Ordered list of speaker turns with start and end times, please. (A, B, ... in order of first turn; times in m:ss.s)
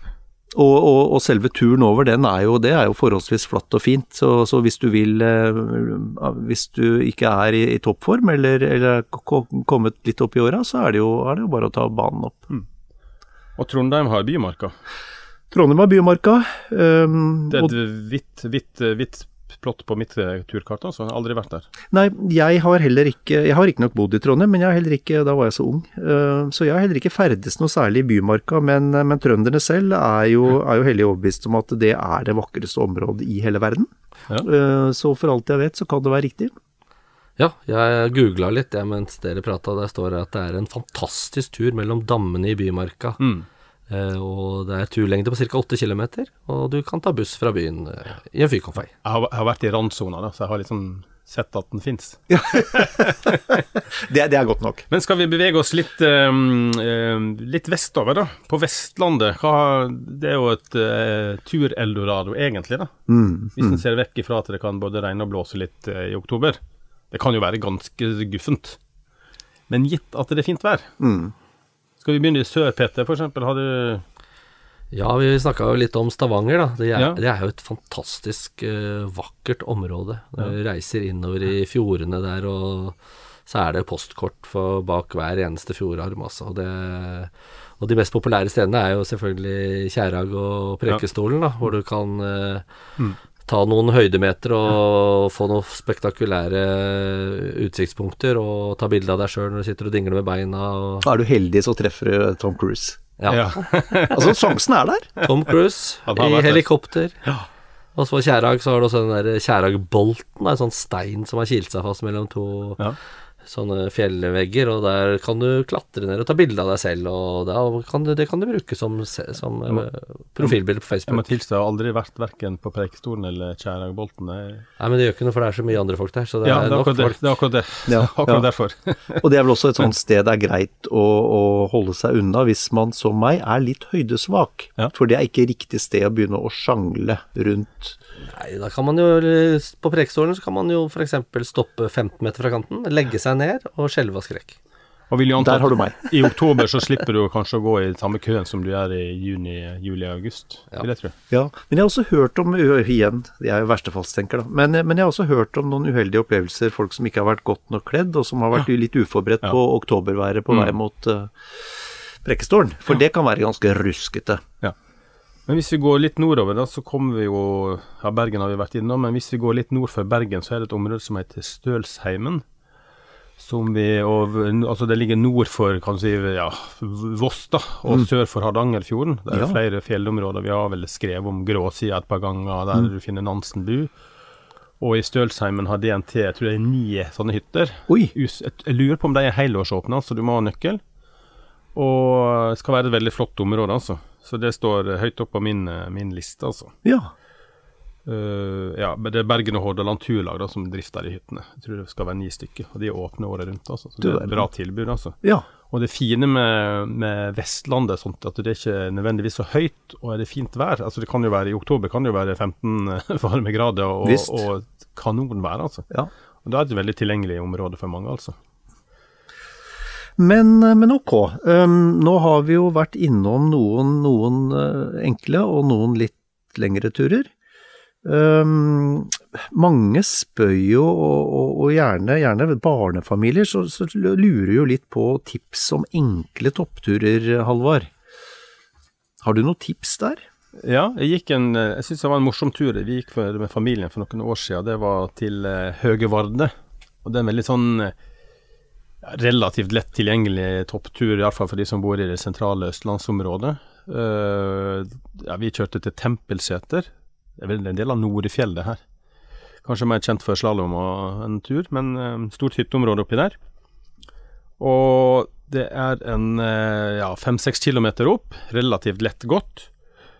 0:00.5-0:12.5 A
0:13.6-0:14.8 B
0:15.5-0:17.8 A
0:17.5-0:21.7 B
0:21.9-0:36.5 A
0:37.4-0:43.2 C
0:43.2-0:43.5 B
0:43.9-0:48.9 C
0:49.0-0:53.6 B
0:52.3-0:54.9 A
0:54.9-1:02.9 B
1:03.1-1:03.8 A
1:03.6-1:06.6 B
1:07.1-1:08.8 B
1:09.7-1:10.9 B
1:11.0-1:11.3 A
1:12.0-1:14.0 B
1:14.9-1:32.6 C
1:17.0-1:17.2 B
1:33.5-1:41.1 C
1:41.0-1:43.0 A
1:43.2-1:44.0 C
1:43.3-1:44.5 B
1:44.1-1:45.1 A
1:45.2-1:47.2 C
1:46.1-1:46.6 B
1:48.0-1:52.8 C
1:53.4-2:01.3 C
2:01.1-2:04.7 B
2:04.8-2:07.2 C
2:06.4-2:09.2 B
2:07.9-2:08.5 A
2:09.2-2:18.0 A
2:18.2-2:24.6 C
2:25.1-2:31.1 B
2:25.4-2:26.1 A
2:31.3-2:44.4 A
2:45.5-2:52.4 B
2:53.4-3:03.9 B
2:59.3-2:59.6 A
3:04.8-3:10.8 B
3:11.8-3:16.7 B
3:16.8-3:17.1 A
3:18.1-3:25.2 B
3:24.0-3:24.5 A
3:25.7-3:35.9 B
3:34.0-3:34.5 A
3:36.4-3:38.4 B
3:40.2-3:47.3 A
3:48.0-3:57.9 A
3:59.2-4:00.2 A
4:00.6-4:06.5 B
4:07.0-4:07.9 B
4:09.0-4:18.8 B
4:19.6-4:23.4 B
4:24.6-4:29.7 B